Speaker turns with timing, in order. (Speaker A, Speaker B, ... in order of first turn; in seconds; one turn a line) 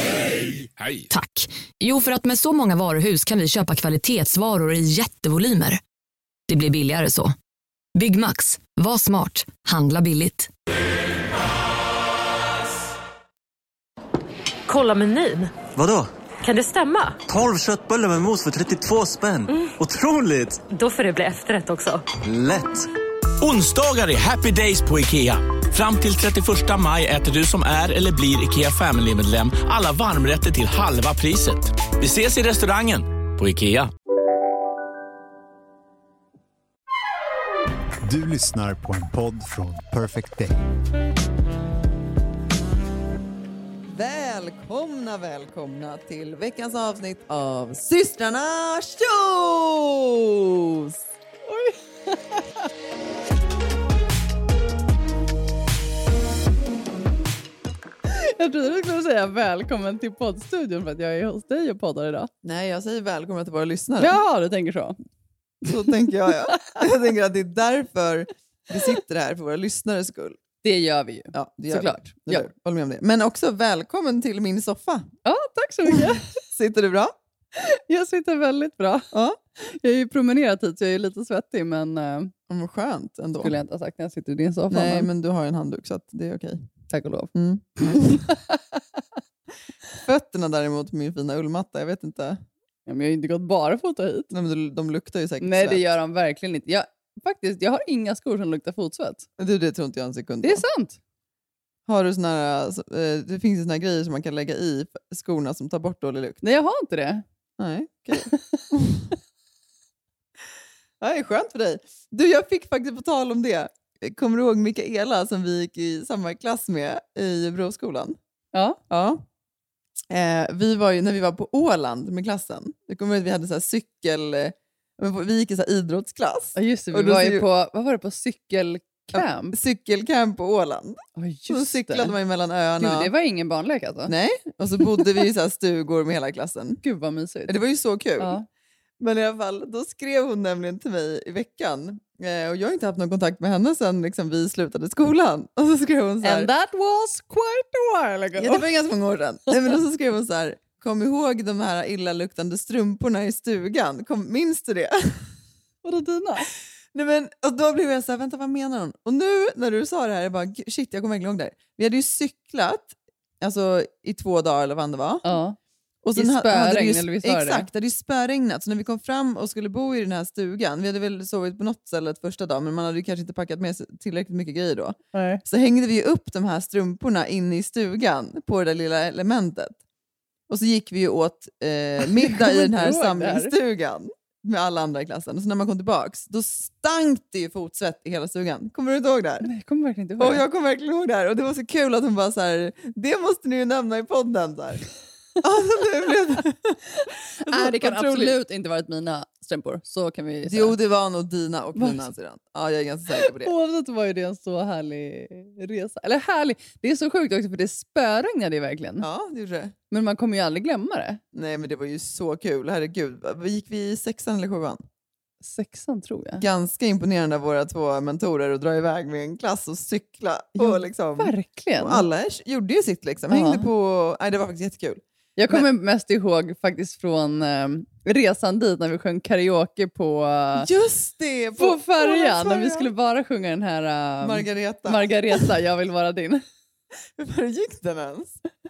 Speaker A: 0.6-1.1
Speaker B: 1.1-5.8
Speaker B: 6.5-7.3
Speaker B: 8.0-10.5
Speaker C: 14.7-15.5
Speaker D: 15.8-16.1
Speaker C: 16.4-17.2
Speaker D: 17.3-20.6
Speaker C: 19.5-19.8
Speaker C: 20.7-22.0
Speaker D: 22.2-22.9
Speaker A: 23.4-33.9
Speaker E: 38.0-40.5
Speaker F: 43.9-51.0
Speaker G: 51.5-52.7
Speaker G: 58.1-62.3
Speaker F: 62.4-64.2
Speaker G: 64.0-65.0
Speaker F: 65.7-70.4
Speaker G: 66.5-66.8
Speaker G: 70.6-72.5
Speaker F: 71.3-75.1
Speaker G: 75.2-76.4
Speaker F: 75.9-77.2
Speaker G: 77.6-82.3
Speaker F: 79.1-79.4
Speaker F: 82.5-83.5
Speaker G: 83.4-85.1
Speaker F: 84.7-86.6
Speaker G: 86.9-88.6
Speaker F: 87.3-88.2
Speaker F: 90.0-92.4
Speaker G: 92.9-94.3
Speaker F: 94.3-95.8
Speaker G: 95.4-99.3
Speaker F: 99.4-100.6
Speaker G: 100.4-101.0
Speaker F: 101.9-106.4
Speaker G: 106.4-107.2
Speaker F: 107.6-109.1
Speaker G: 108.1-108.6
Speaker F: 111.0-118.2
Speaker G: 118.5-118.8
Speaker F: 118.9-119.2
Speaker F: 120.1-127.5
Speaker G: 126.5-129.6
Speaker F: 129.1-133.1
Speaker G: 131.2-132.1
Speaker G: 132.8-134.1
Speaker F: 134.1-136.8
Speaker G: 136.8-137.6
Speaker F: 137.5-138.4
Speaker G: 138.2-138.5
Speaker F: 139.0-146.5
Speaker G: 146.2-148.7
Speaker F: 148.4-155.3
Speaker G: 155.8-156.5
Speaker F: 156.9-165.2
Speaker G: 165.2-165.6
Speaker F: 166.0-179.8
Speaker G: 166.2-167.7
Speaker G: 175.1-175.4
Speaker F: 180.5-189.5
Speaker G: 182.0-183.5
Speaker G: 189.4-190.4
Speaker F: 190.2-194.8
Speaker F: 195.4-198.4
Speaker G: 197.4-200.8
Speaker F: 200.5-203.5
Speaker G: 201.8-202.0
Speaker G: 203.1-209.1
Speaker F: 209.0-209.8
Speaker G: 209.9-211.2
Speaker F: 211.3-214.8
Speaker G: 215.4-216.4
Speaker F: 216.4-225.7
Speaker G: 220.6-222.1
Speaker G: 223.3-223.7
Speaker G: 225.4-230.7
Speaker F: 230.6-232.9
Speaker G: 231.6-236.4
Speaker F: 234.2-235.5
Speaker F: 237.2-238.4